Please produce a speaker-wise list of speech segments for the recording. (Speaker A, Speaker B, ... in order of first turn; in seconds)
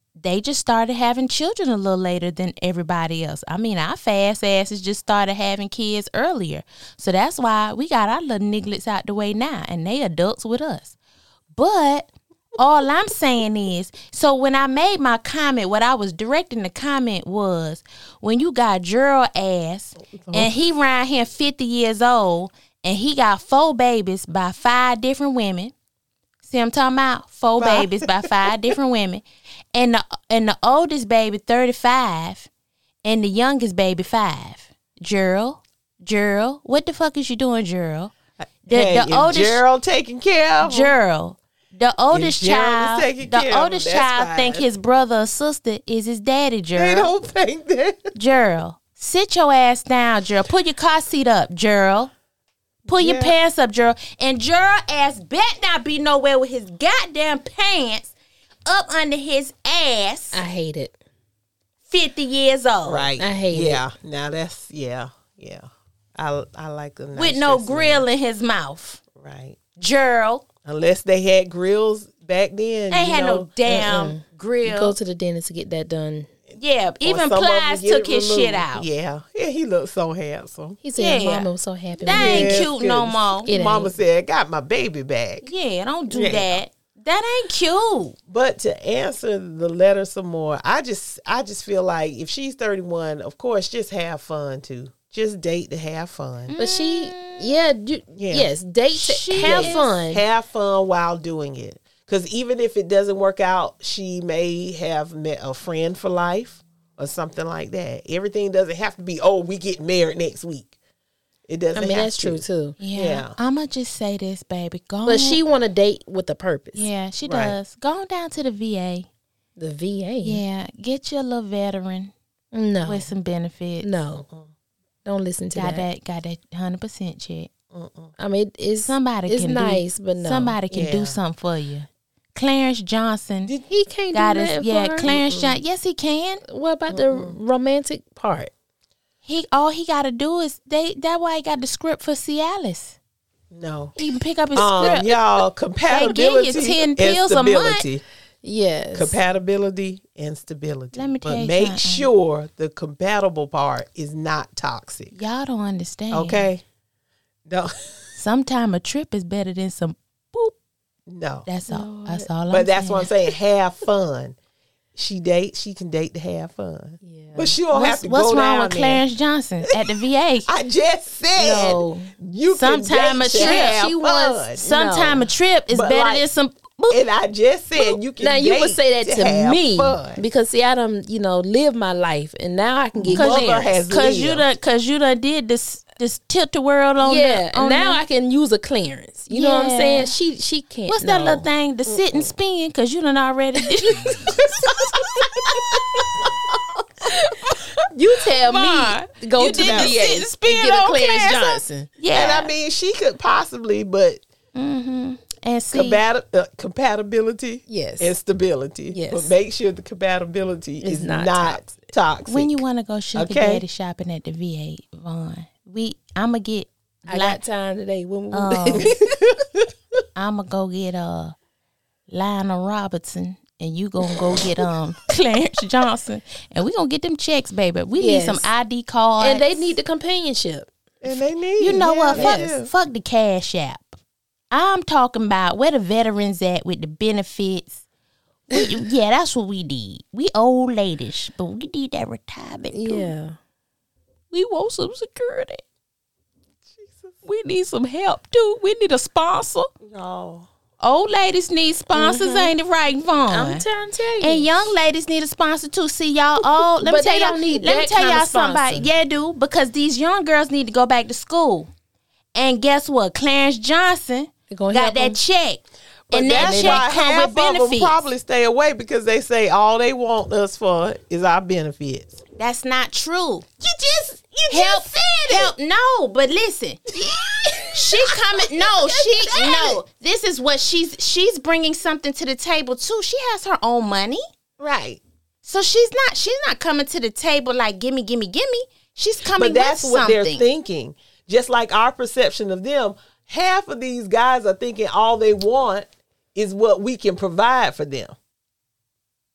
Speaker A: 0.2-11.0, 11.6-25.7, 26.4-32.5, 33.0-38.1, 38.7-39.6, 40.6-47.1, 48.1-52.1, 52.9-58.1, 58.7-60.4, 61.9-63.1, 67.2-69.0, 69.8-70.5, 72.9-75.0, 76.6-78.9, 81.0-81.5, 82.0-83.5, 85.4-88.2, 96.5-97.5, 98.9-99.9, 112.8-115.4, 116.8-119.1, 120.2-122.1, 122.8-123.9, 125.5-127.5, 128.8-133.5, 134.1-136.4, 139.2-143.0, 144.0-145.2, 145.9-147.8, 150.9-152.1, 155.1-156.5, 158.2-160.6, 161.5-163.1, 167.7-170.5, 171.4-171.8, 172.5-173.8, 174.6-177.0, 183.1-188.0, 189.3-190.1, 190.9-194.7, 198.2-202.5, 204.6-206.0, 212.3-217.4, 218.3-218.9, 220.2-221.4, 222.1-229.8, 231.6-234.0, 234.5-237.8, 238.5-243.1, 244.3-245.6, 247.2-249.7, 250.8-253.7, 254.2-261.7, 262.4-268.1, 272.4-273.5, 274.5-276.9, 277.7-284.2, 285.4-290.5
Speaker B: 20.2-20.5, 27.6-28.7, 38.7-40.9, 42.1-44.7, 46.8-48.1, 52.9-53.4, 62.9-68.1, 69.2-69.6, 70.7-73.5, 77.0-80.8, 82.1-85.5, 86.1-86.6, 88.3-96.5, 98.2-98.5, 99.4-110.7, 111.5-113.3, 117.2-117.6, 124.2-124.5, 127.7-128.1, 130.7-131.2, 135.0-135.6, 136.9-137.4, 143.5-143.9, 144.6-148.0, 148.9-155.1, 156.1-156.6, 157.5-158.2, 161.1-161.5, 162.5-164.4, 164.9-169.0, 170.5-174.6, 175.7-176.2, 176.9-180.2, 182.9-184.5, 191.9-192.3, 195.7-196.3, 199.5-200.0, 202.1-204.2, 205.7-212.6, 213.2-213.6, 218.8-219.4, 231.0-232.7, 246.7-247.2, 249.8-250.5, 266.1-272.2, 273.6-275.5, 276.9-279.8, 284.6-285.0, 289.4-298.1
Speaker C: 60.3-60.9, 63.2-63.8, 73.7-76.3, 80.8-82.7, 83.5-83.9, 96.6-100.2, 111.8-112.8, 115.1-116.9, 119.6-120.4, 122.5-123.1, 123.8-124.3, 125.0-125.9, 128.2-130.6, 133.6-135.1, 136.4-138.5, 148.4-149.2, 161.7-162.3, 167.0-167.6, 171.4-172.1, 173.2-175.3, 178.2-183.8, 187.0-191.5, 197.9-201.9, 207.7-208.2, 208.9-209.3, 210.8-211.8, 217.1-219.2, 228.0-228.5, 229.2-230.7, 232.1-232.6, 242.7-243.4, 251.9-252.5, 253.3-254.5, 256.8-258.9, 264.5-265.2, 266.2-266.8